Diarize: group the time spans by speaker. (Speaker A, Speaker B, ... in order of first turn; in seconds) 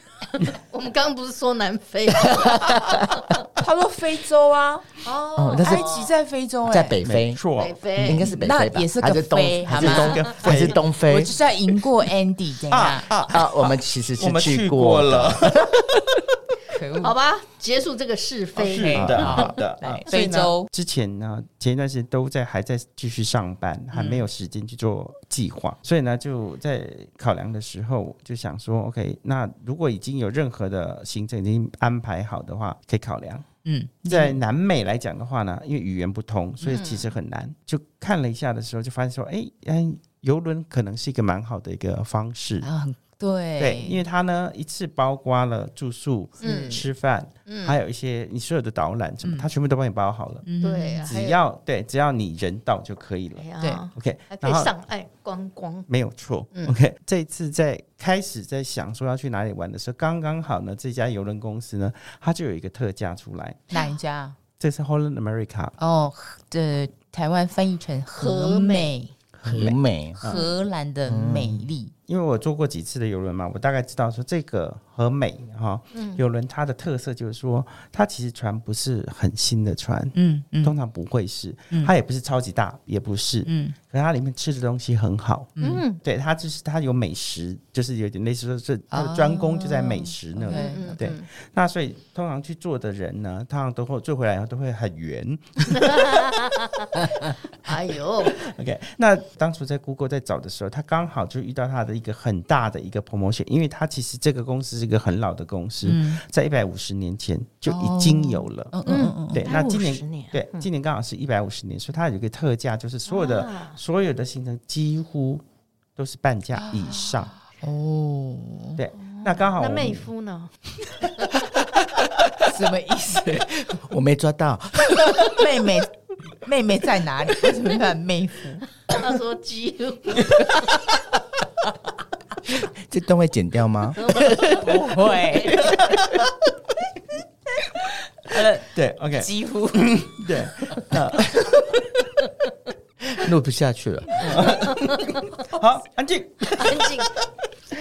Speaker A: 0.3-3.3, 5.0-6.1, 7.6-8.3, 17.0-19.7, 36.6-37.1, 46.4-46.9, 47.5-47.8, 50.6-51.4, 53.3-55.9, 68.2-68.9, 75.9-76.2, 85.6-86.0, 90.4-91.2, 95.6-98.4, 108.8-110.7, 113.0-113.8, 119.0-120.5, 128.9-130.7, 134.0-134.6, 146.5-147.1
Speaker B: 3.5-4.9, 5.6-7.0, 8.3-13.1, 16.7-17.1, 18.7-20.7, 23.9-24.2, 33.6-34.4, 42.6-44.0, 49.2-49.5, 50.4-51.1, 63.7-64.3, 65.8-69.1, 70.1-71.9, 80.1-80.7, 83.5-83.8, 85.6-85.8, 88.9-91.0, 97.0-97.3, 105.8-106.2, 107.7-109.5, 116.5-118.8, 122.4-123.4, 125.2-128.7, 134.5-135.8, 138.2-138.7, 139.2-140.0
Speaker C: 5.3-5.9, 6.7-7.4, 8.0-11.3, 13.2-16.2, 19.0-19.5, 69.4-70.2, 71.0-71.7, 121.6-122.0, 123.1-125.6, 132.4-134.6, 143.1-144.6
Speaker D: 7.0-7.8, 9.7-10.8, 12.7-15.8, 18.6-33.5, 34.0-42.7, 43.6-50.4, 51.0-54.7, 55.9-63.7, 64.6-65.8, 69.3-70.4, 72.1-96.0, 98.3-108.7, 109.3-115.4, 116.0-117.3, 118.8-120.1, 135.6-136.1, 138.7-142.0, 144.2-147.2